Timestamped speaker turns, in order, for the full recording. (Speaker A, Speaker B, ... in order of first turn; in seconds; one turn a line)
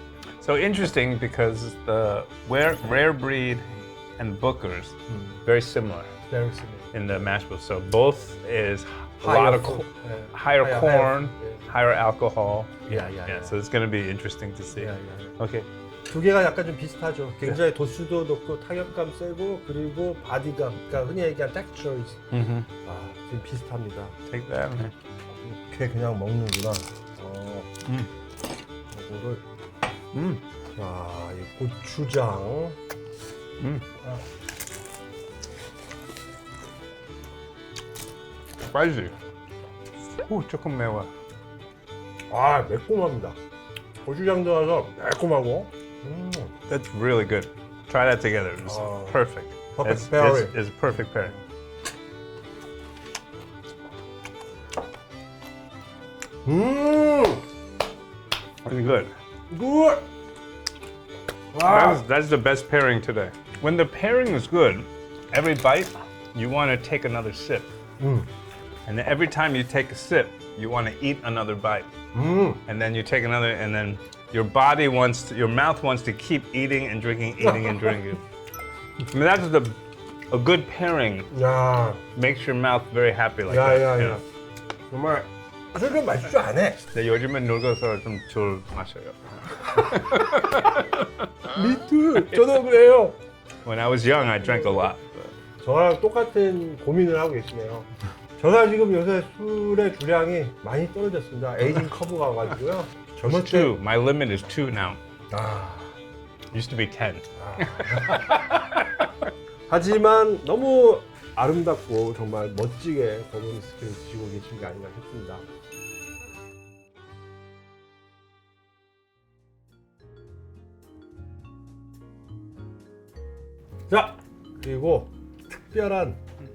Speaker A: 0.4-6.1
Speaker B: 5.1-5.4
Speaker B: 6.3-7.3
Speaker A: 6.9-15.7
Speaker B: 9.2-11.7
Speaker B: 12.9-13.6
Speaker B: 14.8-15.3
Speaker B: 16.1-22.2
Speaker A: 22.3-22.7
Speaker B: 22.9-24.1
Speaker A: 24.3-24.9
Speaker B: 25.4-27.7
Speaker B: 28.9-29.4
Speaker A: 30.1-30.4
Speaker B: 30.8-32.8
Speaker A: 33.6-33.9
Speaker A: 38.7-39.1
Speaker A: 40.2-41.1
Speaker B: 42.3-43.4
Speaker B: 44.0-46.5
Speaker A: 46.7-51.4
Speaker B: 48.6-49.2
Speaker B: 49.7-50.5
Speaker B: 56.5-57.4
Speaker A: 58.6-59.1
Speaker B: 59.5-60.1
Speaker B: 61.5-62.0
Speaker A: 61.6-67.7
Speaker B: 68.0-68.3
Speaker A: 68.9-71.9
Speaker B: 72.1-72.6
Speaker A: 72.7-78.2
Speaker B: 77.4-78.0
Speaker A: 79.1-79.8
Speaker A: 80.3-81.3
Speaker B: 81.3-82.0
Speaker A: 82.2-84.2
Speaker B: 83.5-84.2
Speaker B: 84.9-86.8
Speaker A: 86.9-91.6
Speaker B: 91.5-93.2
Speaker A: 93.7-95.3
Speaker B: 94.4-94.9
Speaker B: 95.6-103.7
Speaker A: 103.3-105.0
Speaker B: 105.3-106.0
Speaker A: 106.5-109.1
Speaker B: 107.4-108.5
Speaker B: 109.7-115.5
Speaker B: 123.9-126.2